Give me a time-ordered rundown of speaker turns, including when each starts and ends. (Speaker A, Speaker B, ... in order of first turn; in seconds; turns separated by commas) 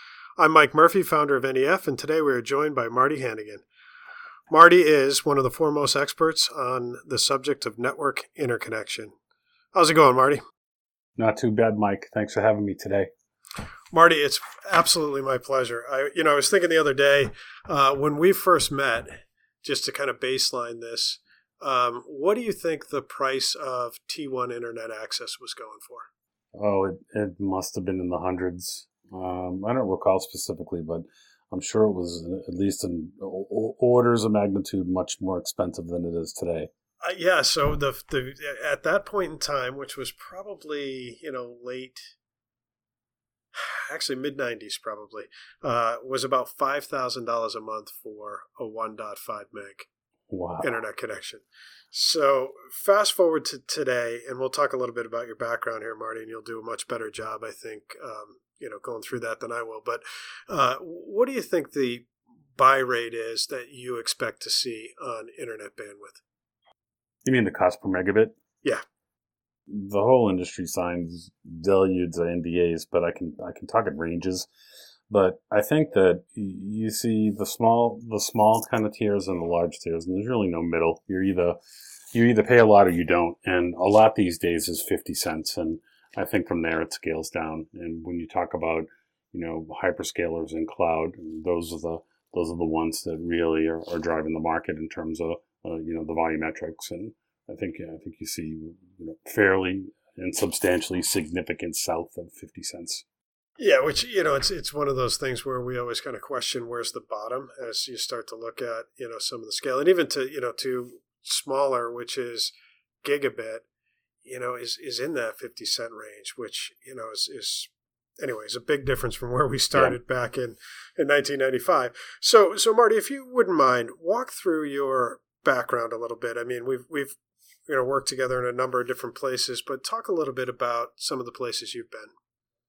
Speaker A: 0.4-3.6, Speaker A: 4.5-9.1, Speaker A: 9.7-10.4, Speaker B: 11.2-13.1, Speaker A: 13.9-26.1, Speaker B: 26.6-36.7, Speaker A: 37.0-42.1, Speaker A: 43.5-49.9, Speaker B: 50.3-50.7, Speaker A: 50.6-66.2, Speaker B: 67.2-68.4, Speaker B: 69.7-74.5, Speaker B: 75.1-81.6, Speaker B: 82.1-103.0, Speaker A: 103.6-113.7, Speaker A: 114.2-127.2, Speaker A: 127.7-132.1